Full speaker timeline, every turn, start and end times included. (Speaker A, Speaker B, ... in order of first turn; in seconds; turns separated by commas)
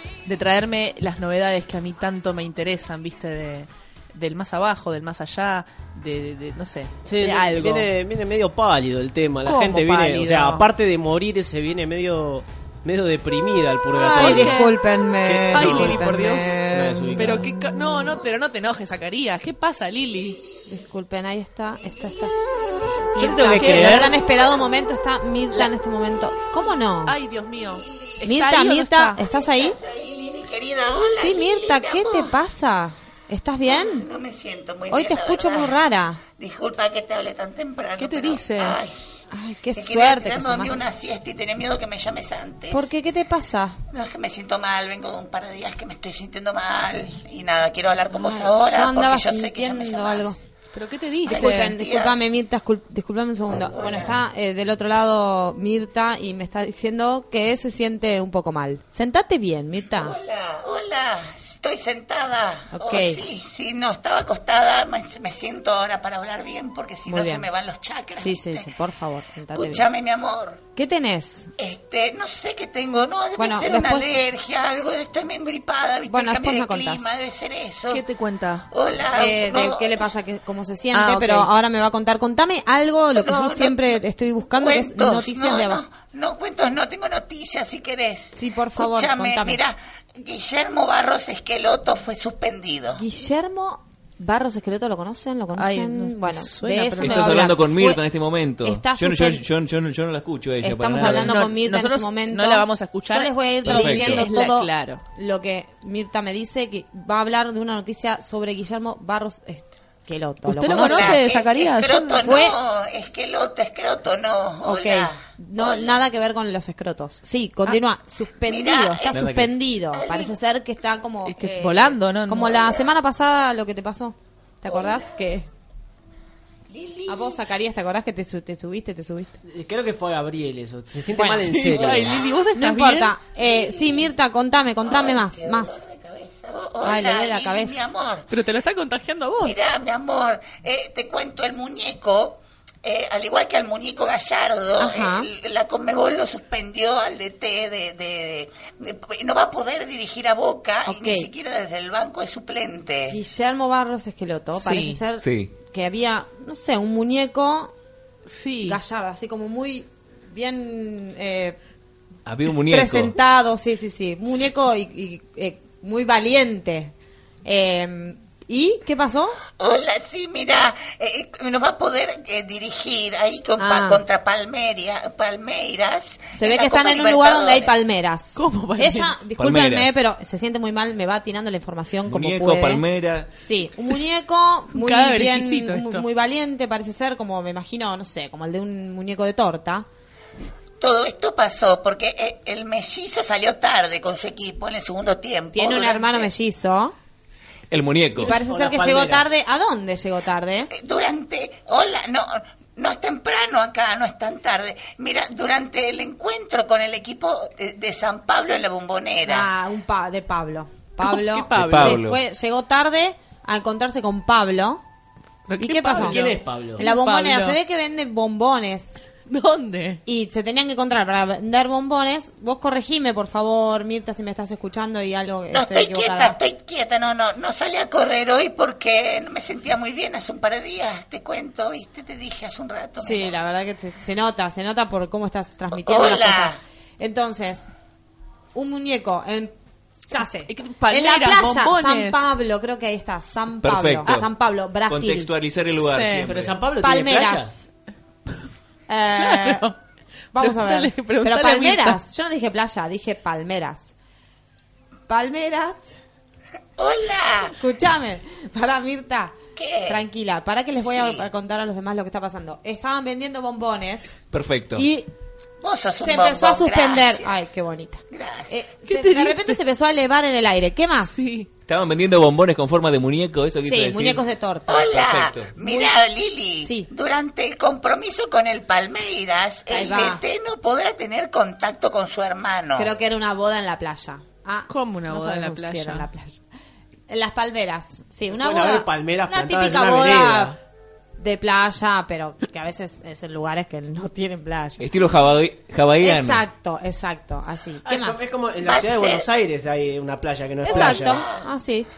Speaker A: 0.2-7.9, Speaker B: 7.0-14.7, Speaker A: 9.4-10.7, Speaker C: 13.9-18.2, Speaker A: 14.1-14.8, Speaker B: 15.2-17.5, Speaker A: 15.5-16.6, Speaker A: 17.2-20.4, Speaker C: 20.7-22.3, Speaker C: 23.1-27.2, Speaker B: 23.2-24.1, Speaker A: 23.6-24.1, Speaker A: 27.1-29.2, Speaker C: 28.2-29.8, Speaker D: 29.2-32.3, Speaker C: 31.1-34.1, Speaker D: 33.7-35.8, Speaker C: 34.9-36.2, Speaker D: 36.4-38.9, Speaker A: 38.0-38.8, Speaker C: 39.3-40.8, Speaker D: 39.8-42.9, Speaker C: 42.7-43.8, Speaker D: 43.9-50.4, Speaker C: 48.1-50.4, Speaker A: 50.7-51.7, Speaker D: 51.2-52.3, Speaker C: 51.2-60.2, Speaker D: 53.7-54.2, Speaker D: 59.9-68.7, Speaker C: 62.7-63.2, Speaker C: 67.1-67.5, Speaker C: 68.2-69.8, Speaker D: 69.5-70.6, Speaker C: 70.8-71.5, Speaker D: 71.6-78.0, Speaker C: 73.4-74.2, Speaker C: 76.1-77.1, Speaker A: 77.9-78.7, Speaker D: 78.7-79.9, Speaker C: 79.1-85.8, Speaker A: 80.9-81.5, Speaker D: 83.2-84.0, Speaker D: 84.5-93.0, Speaker C: 88.3-89.6, Speaker C: 93.0-98.0, Speaker A: 95.6-97.5, Speaker E: 97.0-101.4, Speaker C: 98.6-99.5, Speaker C: 100.6-111.2, Speaker A: 101.0-105.0, Speaker E: 103.7-104.3, Speaker A: 110.5-112.4, Speaker D: 110.7-116.0, Speaker C: 112.2-112.6, Speaker C: 114.6-125.5, Speaker D: 118.4-119.4, Speaker B: 119.1-119.5, Speaker D: 119.9-120.3, Speaker A: 121.3-122.6, Speaker D: 124.7-125.1, Speaker D: 126.7-127.4, Speaker C: 127.1-129.4, Speaker B: 129.5-132.2, Speaker C: 131.1-135.8, Speaker A: 131.4-133.2, Speaker D: 133.4-134.1, Speaker D: 134.8-138.3, Speaker C: 136.8-137.9, Speaker A: 138.3-139.6, Speaker D: 139.4-153.2, Speaker C: 144.8-145.3, Speaker C: 150.8-151.3, Speaker C: 153.1-157.7, Speaker A: 154.6-155.0, Speaker E: 155.2-155.5, Speaker A: 158.3-158.8, Speaker C: 158.7-161.6, Speaker E: 162.3-163.2, Speaker C: 162.5-166.9, Speaker C: 167.4-169.4, Speaker D: 169.6-177.7, Speaker C: 173.6-174.0, Speaker C: 176.4-182.8, Speaker A: 178.4-179.2, Speaker E: 179.4-179.9, Speaker E: 182.1-183.3, Speaker C: 183.4-189.9, Speaker A: 184.7-186.0, Speaker D: 190.8-196.3, Speaker C: 195.5-196.9, Speaker E: 197.7-198.4, Speaker C: 198.2-200.7, Speaker B: 198.3-199.3, Speaker D: 200.7-209.5, Speaker C: 209.2-214.8, Speaker A: 211.0-212.0, Speaker E: 211.6-212.2, Speaker A: 215.5-217.6, Speaker C: 215.6-219.0, Speaker B: 215.8-216.8, Speaker A: 219.3-220.0, Speaker C: 220.1-226.4, Speaker D: 225.5-233.3, Speaker C: 233.0-237.7, Speaker D: 235.8-236.6, Speaker C: 238.5-239.5, Speaker C: 240.1-245.3, Speaker A: 240.5-242.3, Speaker E: 243.6-244.3, Speaker E: 244.9-246.6, Speaker A: 245.9-246.3, Speaker B: 246.2-247.5, Speaker C: 246.8-247.7, Speaker C: 248.9-249.7, Speaker A: 249.2-249.8, Speaker C: 250.3-253.9, Speaker A: 250.4-252.0, Speaker C: 255.1-256.0, Speaker D: 256.8-257.6, Speaker C: 257.4-264.2, Speaker D: 259.6-260.0, Speaker D: 260.8-261.3, Speaker E: 264.3-264.9, Speaker C: 264.7-265.1, Speaker D: 265.6-267.3, Speaker C: 266.0-271.2, Speaker D: 268.1-268.6, Speaker A: 268.9-269.6, Speaker A: 271.1-271.5, Speaker E: 271.7-274.2, Speaker C: 273.7-275.0, Speaker D: 274.7-282.9, Speaker E: 274.7-275.5, Speaker C: 275.6-276.0, Speaker C: 276.6-276.9, Speaker C: 279.7-280.2, Speaker C: 282.8-286.4, Speaker A: 284.7-286.1, Speaker C: 287.1-290.6, Speaker B: 288.3-290.6, Speaker C: 291.2-294.9, Speaker E: 294.8-296.4, Speaker C: 296.0-298.2, Speaker B: 297.9-301.2, Speaker D: 298.6-299.3, Speaker C: 300.6-301.9, Speaker D: 300.7-301.4